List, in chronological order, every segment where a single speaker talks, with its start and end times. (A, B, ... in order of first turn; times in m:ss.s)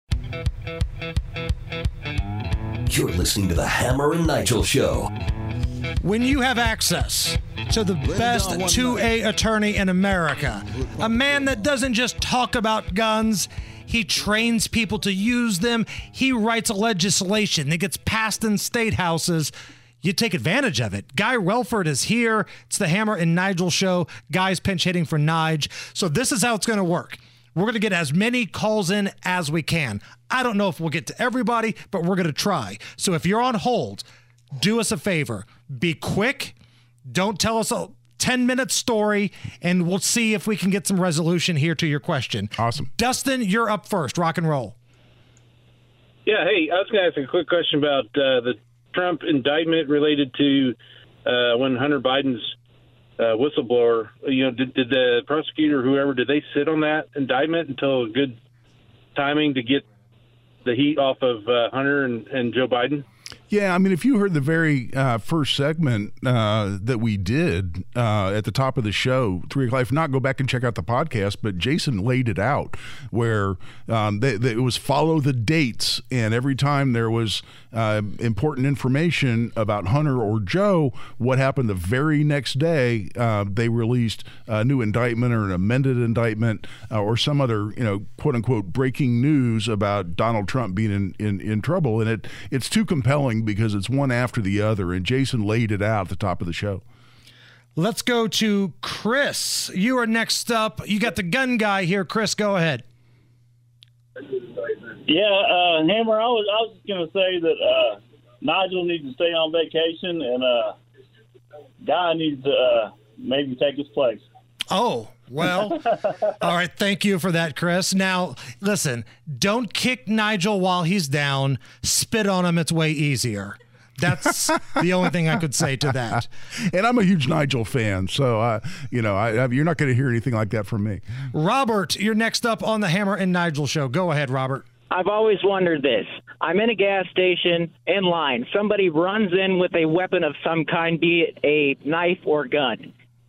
0:02.9-0:05.1 A
0:06.0-0:36.5 B
0:37.1-0:44.8 B
0:42.6-0:42.9 C
0:46.2-0:52.5 D
0:53.2-0:58.4 D
0:59.2-0:59.8 D
1:00.6-1:03.0 D
1:03.5-1:36.8 C
1:37.8-1:42.8 B
1:45.0-1:50.8 E
1:51.8-1:54.2 E
1:54.7-1:55.8 B
1:56.4-2:06.3 B
2:06.7-2:11.0 C
2:11.3-2:14.6 B
2:14.9-2:22.9 F